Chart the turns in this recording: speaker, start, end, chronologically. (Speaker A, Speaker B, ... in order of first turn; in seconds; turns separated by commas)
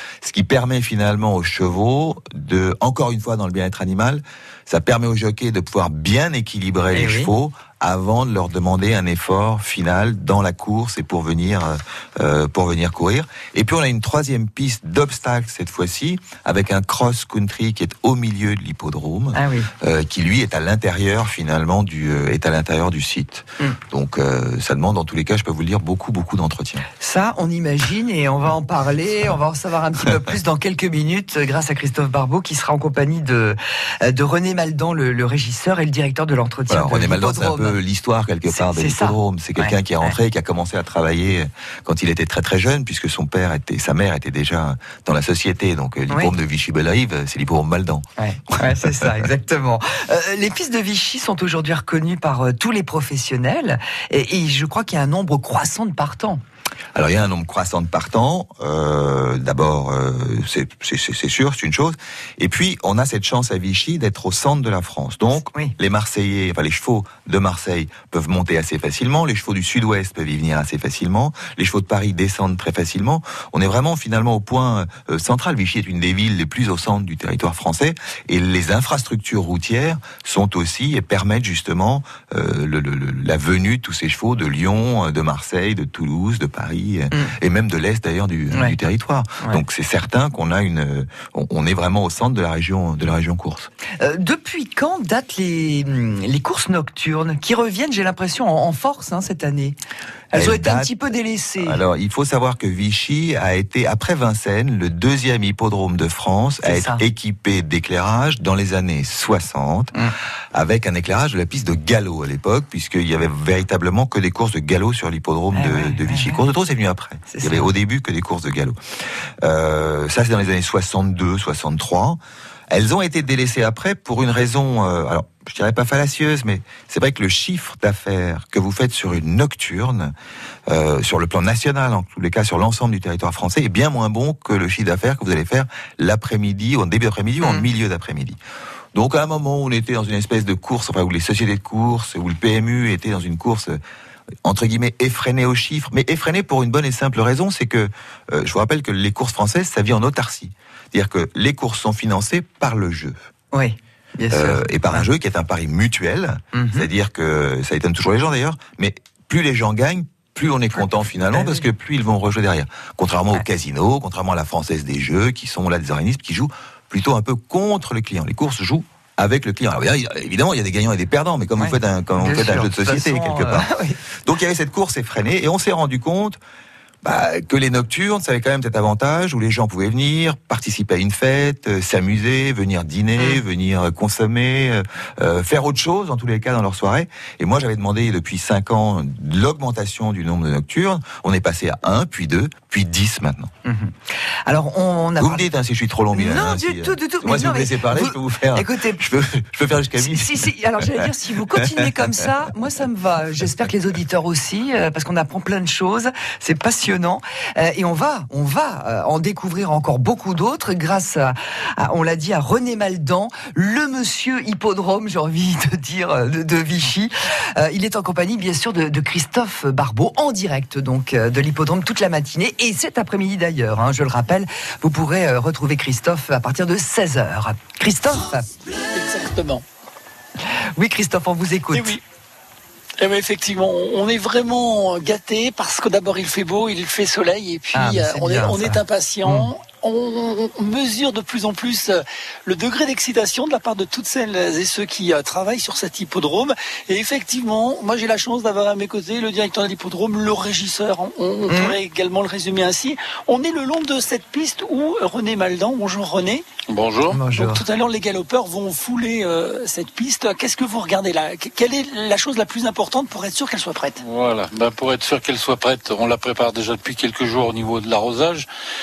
Speaker A: 0.2-26.9, Speaker B: 6.9-7.3, Speaker B: 19.3-19.7, Speaker B: 27.0-37.8, Speaker A: 36.7-49.3, Speaker B: 38.5-40.1, Speaker B: 48.2-56.4, Speaker A: 57.0-93.7, Speaker B: 94.0-99.8, Speaker B: 100.3-101.8, Speaker A: 100.3-100.9, Speaker A: 101.6-109.9, Speaker B: 106.6-107.0, Speaker A: 110.5-118.8, Speaker B: 115.5-116.5, Speaker B: 117.3-117.7, Speaker A: 119.4-122.2, Speaker A: 122.7-130.1, Speaker A: 130.7-138.4, Speaker B: 137.4-137.7, Speaker A: 138.9-143.8, Speaker A: 144.4-153.2, Speaker B: 153.5-155.1, Speaker A: 154.3-173.7, Speaker B: 156.5-156.9, Speaker B: 161.3-161.7, Speaker B: 171.6-174.0, Speaker A: 174.2-176.4, Speaker A: 177.0-193.5, Speaker B: 193.7-193.9, Speaker B: 194.5-195.5, Speaker A: 195.2-201.9, Speaker B: 196.1-199.0, Speaker B: 200.0-228.5, Speaker C: 228.9-229.6, Speaker B: 230.8-232.0, Speaker C: 231.7-232.0, Speaker C: 233.0-256.4, Speaker B: 237.7-239.5, Speaker B: 251.5-251.8, Speaker D: 256.7-257.2, Speaker B: 257.1-257.6, Speaker C: 257.3-264.0, Speaker D: 264.0-268.5